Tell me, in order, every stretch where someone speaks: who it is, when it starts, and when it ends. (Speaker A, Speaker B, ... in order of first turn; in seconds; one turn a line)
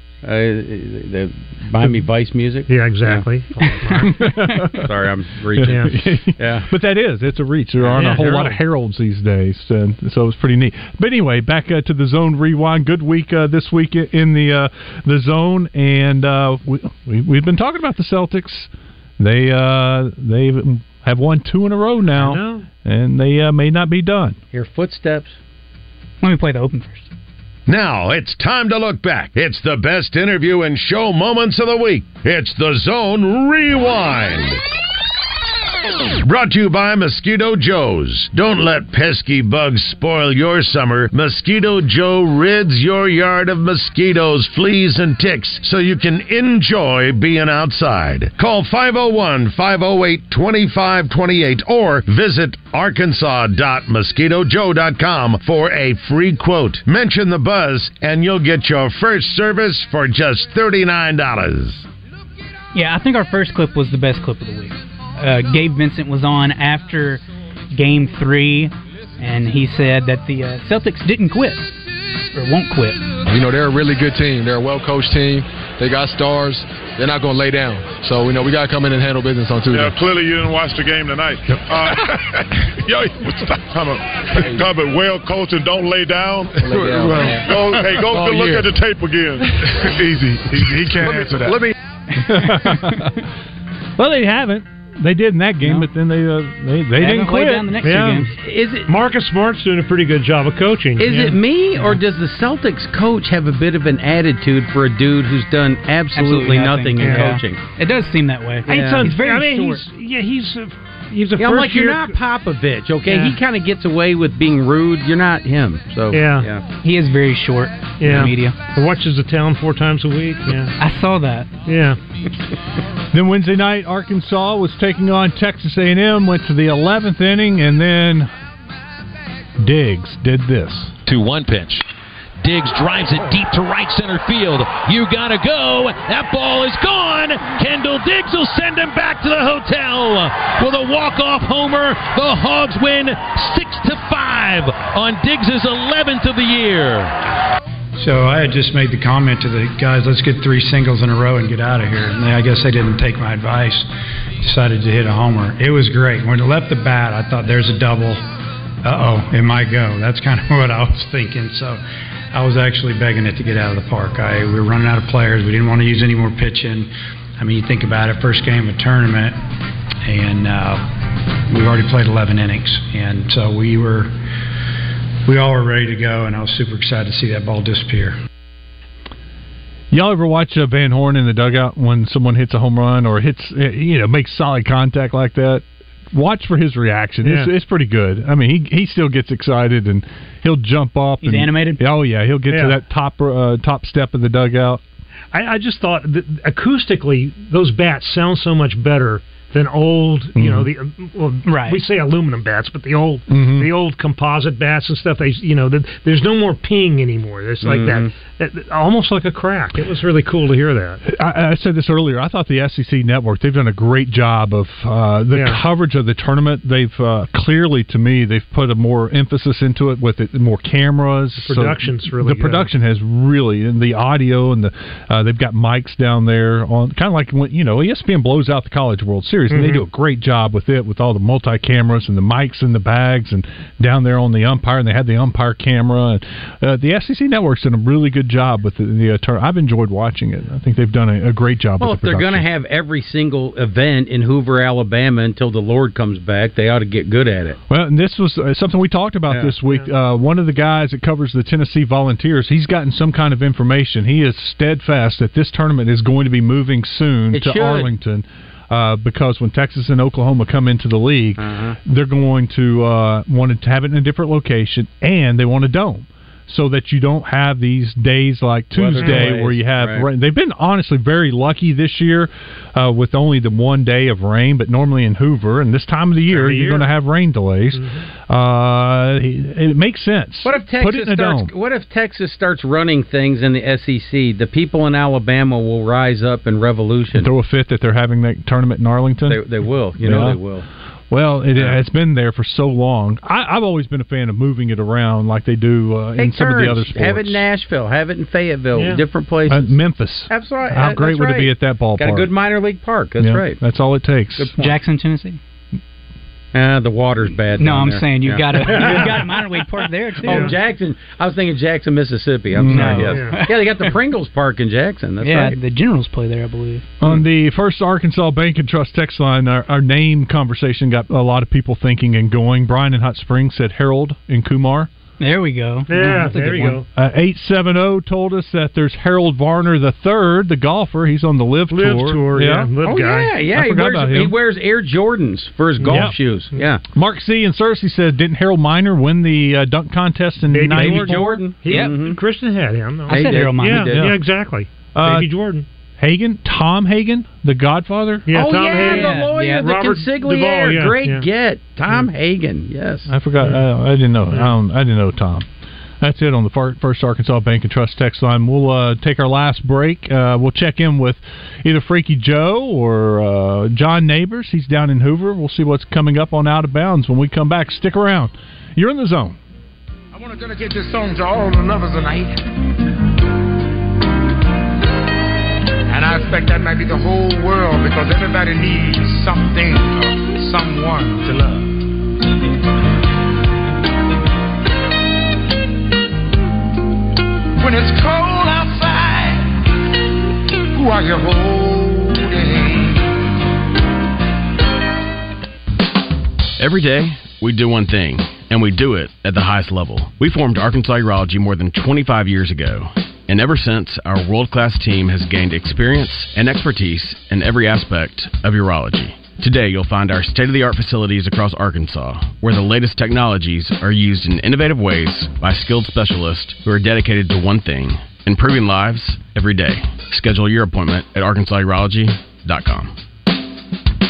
Speaker A: 0.2-3.2
Speaker B: 2.7-4.1
Speaker C: 3.9-4.9
Speaker A: 4.8-6.7
Speaker C: 5.6-24.4
Speaker B: 5.6-6.0
Speaker B: 7.8-8.6
Speaker B: 22.1-22.6
Speaker A: 24.5-25.3
Speaker D: 26.2-27.1
Speaker E: 27.7-34.6
Speaker E: 36.2-61.9
Speaker D: 62.7-71.7
Speaker D: 72.3-73.0
Speaker F: 73.3-80.0
Speaker G: 79.8-82.0
Speaker F: 84.3-84.7
Speaker G: 84.5-86.5
Speaker F: 86.6-88.7
Speaker H: 87.3-88.2
Speaker G: 87.7-89.3
Speaker H: 90.8-91.7
Speaker F: 91.0-91.5
Speaker C: 92.2-93.2
Speaker D: 92.3-92.9
Speaker C: 94.0-97.7
Speaker D: 95.6-95.9
Speaker D: 97.0-98.3
Speaker B: 97.8-98.3
Speaker A: 98.4-98.9
Speaker B: 98.9-101.4
Speaker A: 101.0-107.6
Speaker D: 106.1-109.8
Speaker B: 107.0-107.4
Speaker B: 108.7-112.2
Speaker A: 108.7-109.1
Speaker A: 111.4-116.6
Speaker B: 113.1-113.4
Speaker B: 116.1-116.5
Speaker D: 116.8-118.5
Speaker B: 118.0-120.7
Speaker D: 120.8-121.5
Speaker B: 121.7-122.0
Speaker C: 123.1-128.3
Speaker C: 129.6-130.9
Speaker I: 131.1-131.8
Speaker I: 132.4-147.1
Speaker J: 148.0-153.9
Speaker J: 154.4-158.2
Speaker J: 158.8-161.8
Speaker J: 162.3-169.4
Speaker J: 170.1-170.8
Speaker J: 171.5-174.1
Speaker J: 175.3-178.2
Speaker C: 179.9-194.8
Speaker B: 187.2-187.5
Speaker D: 191.2-191.8
Speaker B: 192.5-192.8
Speaker B: 195.3-211.0
Speaker C: 200.3-200.7
Speaker D: 201.5-201.8
Speaker C: 203.3-203.7
Speaker A: 207.6-208.1
Speaker C: 211.0-242.4
Speaker B: 215.3-215.6
Speaker B: 221.4-222.7
Speaker B: 229.5-229.8
Speaker A: 241.8-247.6
Speaker C: 247.7-281.5
Speaker A: 257.3-257.9
Speaker A: 261.4-261.8
Speaker A: 268.7-270.1
Speaker B: 269.0-269.3
Speaker B: 276.3-276.9
Speaker B: 277.7-278.0
Speaker A: 280.4-287.3
Speaker C: 287.1-289.4
Speaker A: 289.2-290.6
Speaker C: 290.0-290.4
Speaker C: 291.1-297.4
Speaker A: 296.2-299.7
Speaker B: 298.7-299.0
Speaker C: 299.5-302.3
Speaker A: 300.3-303.6
Speaker C: 303.2-304.5
Speaker A: 304.4-304.8
Speaker D: 304.6-305.4
Speaker A: 306.5-309.2
Speaker D: 307.6-310.5
Speaker B: 308.7-309.2
Speaker A: 310.2-315.6
Speaker B: 310.2-310.5
Speaker C: 312.5-313.1
Speaker D: 312.7-313.6
Speaker B: 312.9-313.4
Speaker D: 315.2-316.9
Speaker C: 317.0-324.9
Speaker D: 325.2-326.8
Speaker B: 325.9-326.9
Speaker C: 326.9-332.7
Speaker B: 331.7-333.3
Speaker A: 332.8-336.8
Speaker C: 333.5-334.4
Speaker B: 335.8-336.6
Speaker C: 335.9-336.2
Speaker C: 336.9-341.4
Speaker B: 340.5-345.6
Speaker A: 340.7-342.2
Speaker D: 341.7-341.9
Speaker D: 343.1-343.9
Speaker A: 343.1-344.0
Speaker C: 344.9-345.3
Speaker C: 346.0-348.3
Speaker B: 348.2-351.2
Speaker A: 348.3-353.1
Speaker D: 348.7-349.7
Speaker C: 353.1-355.5
Speaker C: 356.0-369.4
Speaker H: 370.1-372.4
Speaker H: 375.9-381.8
Speaker H: 387.6-389.5
Speaker H: 390.7-393.0
Speaker K: 397.8-398.2
Speaker K: 399.4-402.8
Speaker K: 403.4-419.8
Speaker K: 420.3-422.1